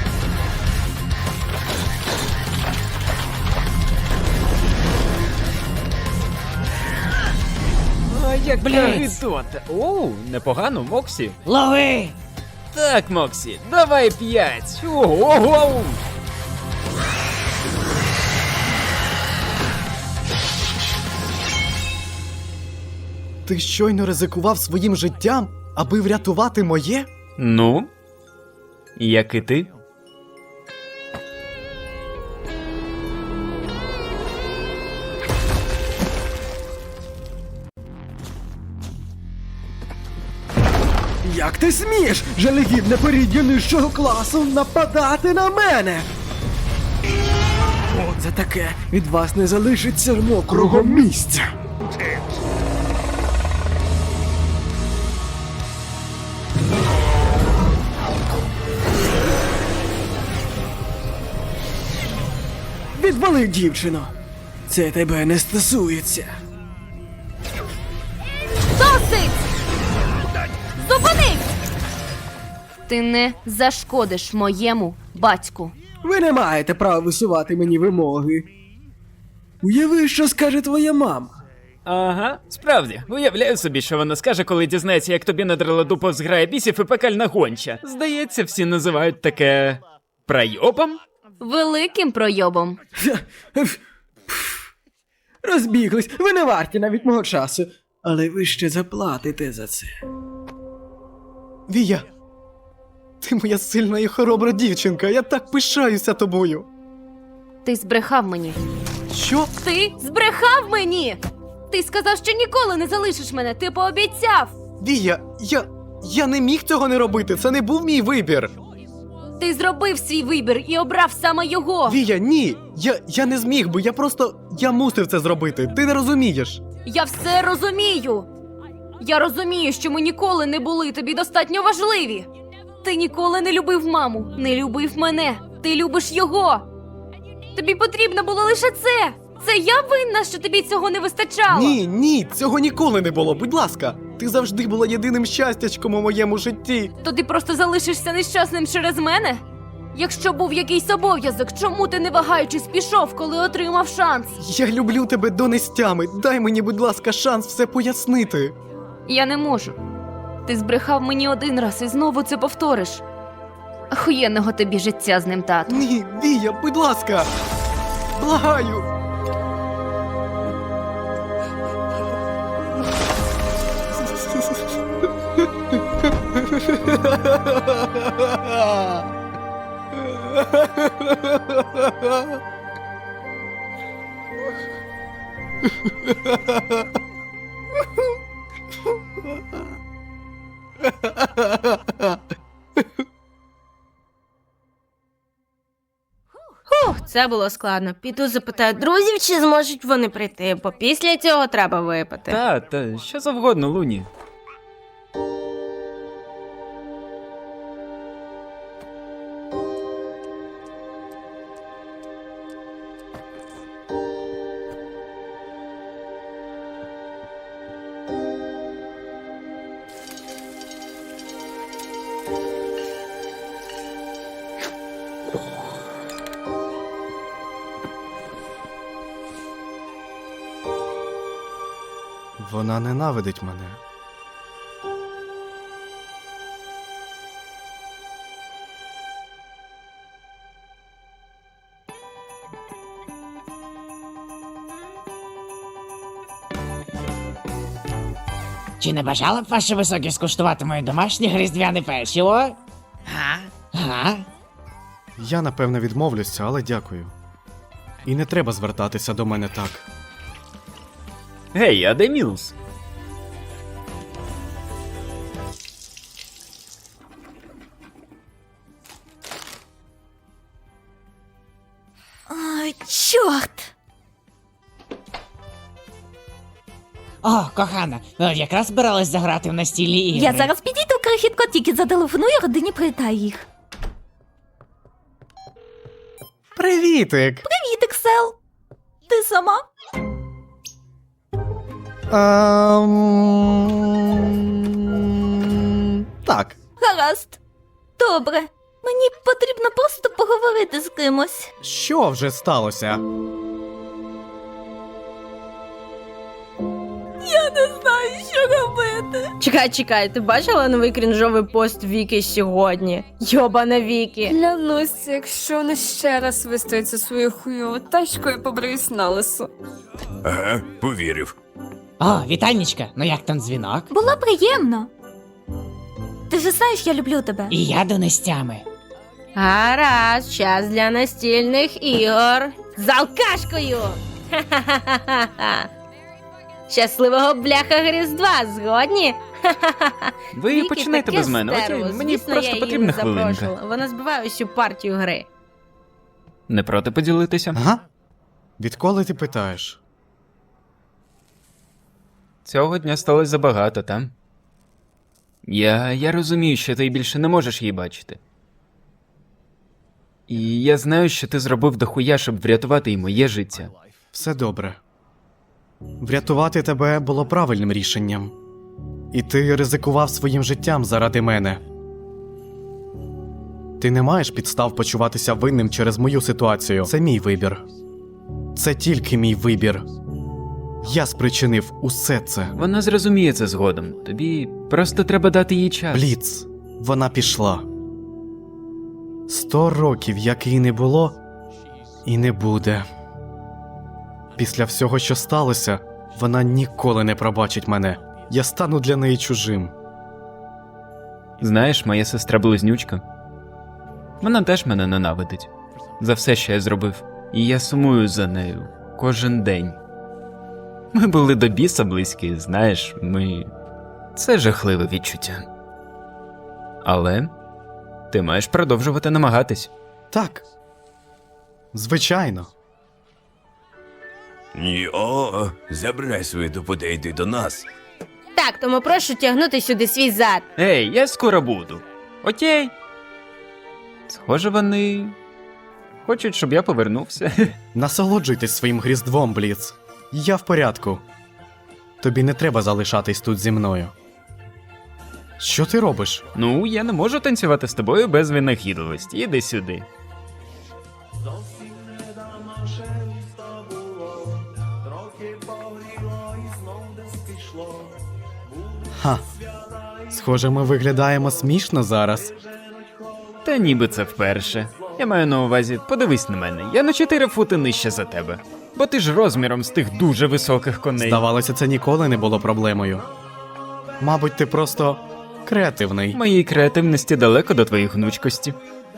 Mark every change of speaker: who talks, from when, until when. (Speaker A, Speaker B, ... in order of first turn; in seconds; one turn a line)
Speaker A: 8.1-11.4
Speaker B: 8.5-9.2
Speaker B: 11.4-12.1
Speaker A: 12.7-16.0
Speaker C: 23.4-27.1
Speaker A: 27.4-27.9
Speaker A: 29.0-29.7
Speaker D: 41.2-46.1
Speaker D: 47.9-51.5
Speaker D: 62.9-64.1
Speaker D: 64.7-66.3
Speaker E: 68.7-69.4
Speaker E: 70.8-71.4
Speaker E: 72.9-75.7
Speaker D: 76.0-78.5
Speaker D: 79.6-81.3
Speaker A: 81.9-91.0
Speaker E: 91.4-92.8
Speaker D: 93.0-94.6
Speaker D: 95.4-99.9
Speaker C: 101.7-102.1
Speaker C: 103.2-106.7
Speaker E: 107.6-108.6
Speaker C: 109.1-109.5
Speaker E: 109.6-114.5
Speaker C: 114.8-118.5
Speaker E: 119.4-122.0
Speaker C: 121.9-126.6
Speaker E: 126.8-128.3
Speaker E: 129.0-132.3
Speaker E: 132.8-136.7
Speaker E: 137.5-141.8
Speaker C: 141.5-146.9
Speaker E: 147.0-149.4
Speaker E: 149.9-154.4
Speaker C: 154.4-158.5
Speaker E: 159.1-159.8
Speaker E: 160.4-163.0
Speaker E: 163.9-165.8
Speaker C: 165.7-167.3
Speaker C: 168.2-168.9
Speaker C: 176.6-177.6
Speaker C: 178.2-178.9
Speaker C: 180.6-180.9
Speaker F: 196.7-202.4
Speaker A: 202.3-204.1
Speaker C: 232.4-233.8
Speaker B: 248.8-254.2
Speaker C: 255.2-257.1
Speaker C: 258.0-259.9
Speaker A: 261.5-262.5
Speaker G: 272.3-273.7
Speaker B: 277.2-280.5
Speaker G: 280.1-283.4
Speaker C: 286.6-287.4
Speaker G: 287.4-288.4
Speaker G: 289.1-289.7
Speaker C: 292.1-296.6
Speaker G: 296.8-297.4
Speaker G: 298.0-301.5
Speaker C: 301.6-303.0
Speaker G: 307.2-309.3
Speaker F: 309.4-314.4
Speaker H: 314.3-319.5
Speaker I: 320.2-321.3
Speaker B: 322.0-323.9
Speaker G: 323.9-324.9
Speaker G: 326.3-327.5
Speaker B: 327.5-328.6
Speaker F: 329.4-335.7
Speaker F: 336.7-345.3
Speaker A: 340.3-343.5
Speaker A: 346.5-347.6
Speaker C: 347.5-347.8
Speaker C: 348.6-349.8
Speaker A: 352.4-354.1
Speaker A: 355.4-358.2
Speaker A: 360.3-363.7
Speaker C: 364.1-364.8
Speaker C: 366.0-368.4
Speaker C: 369.1-371.6
Speaker C: 373.8-377.6
Speaker C: 378.5-379.9
Speaker C: 380.8-382.5
Speaker A: 382.6-386.1
Speaker C: 385.9-387.6
Speaker C: 389.3-391.2
Speaker C: 392.0-392.9
Speaker C: 394.4-399.7
Speaker A: 401.4-403.0
Speaker A: 404.2-409.8
Speaker A: 410.9-413.5
Speaker A: 414.1-415.5
Speaker A: 416.8-417.3
Speaker A: 418.1-419.7
Speaker C: 420.1-420.4
Speaker C: 421.7-422.5
Speaker I: 424.5-427.6
Speaker F: 428.4-430.4
Speaker A: 430.6-432.7
Speaker A: 434.1-435.1
Speaker A: 436.1-437.6
Speaker C: 437.7-441.0
Speaker C: 442.0-443.9
Speaker C: 445.4-446.2
Speaker A: 446.4-449.9
Speaker C: 458.9-459.3
Speaker C: 460.1-462.4
Speaker A: 463.4-471.2
Speaker C: 471.0-473.1
Speaker C: 474.0-476.2
Speaker A: 476.1-478.6